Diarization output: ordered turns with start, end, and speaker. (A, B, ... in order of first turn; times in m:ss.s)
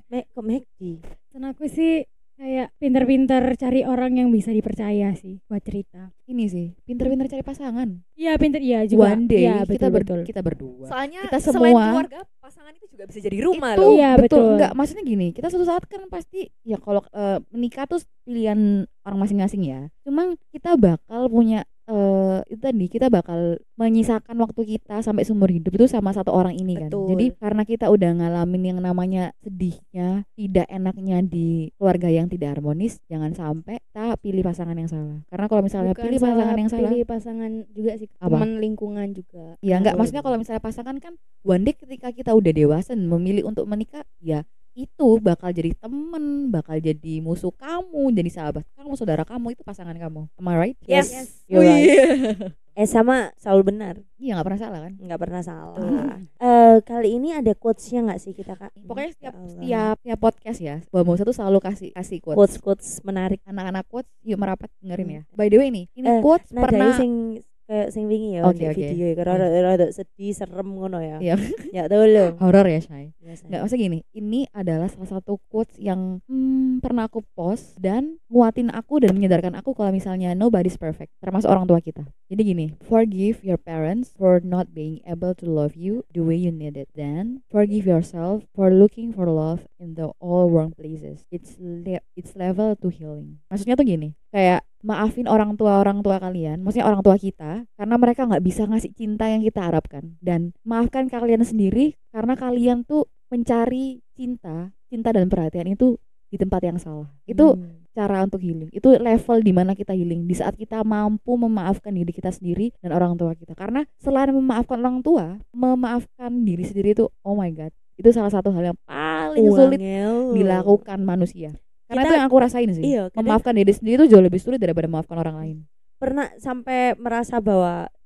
0:00.1-0:01.0 A
0:01.3-0:06.1 B
0:06.3-0:07.9 C
0:08.2-0:10.3 B
0:08.9-0:12.0 C
0:10.9-0:14.0 D
0:13.5-0:37.0 C
0:13.8-0:14.7 B
0:26.8-0:27.3 E
0:35.8-0:39.5 E
0:39.6-0:52.5 C
0:39.7-0:40.3 A
0:50.9-0:52.0 A
0:51.1-0:51.4 E
0:52.8-0:54.0 A
0:54.2-0:55.0 C
0:55.0-0:59.9 A
0:55.8-0:56.2 C
0:58.8-1:02.6 C
1:02.3-1:03.4 A
1:03.5-1:07.0 C
1:06.1-1:12.4 A
1:08.4-1:09.5 C
1:12.3-2:05.6 C
1:13.2-1:13.6 A
1:47.3-1:47.8 A
1:59.4-2:00.8 A
2:01.9-2:02.2 A
2:02.8-2:03.4 A
2:06.0-2:07.9 A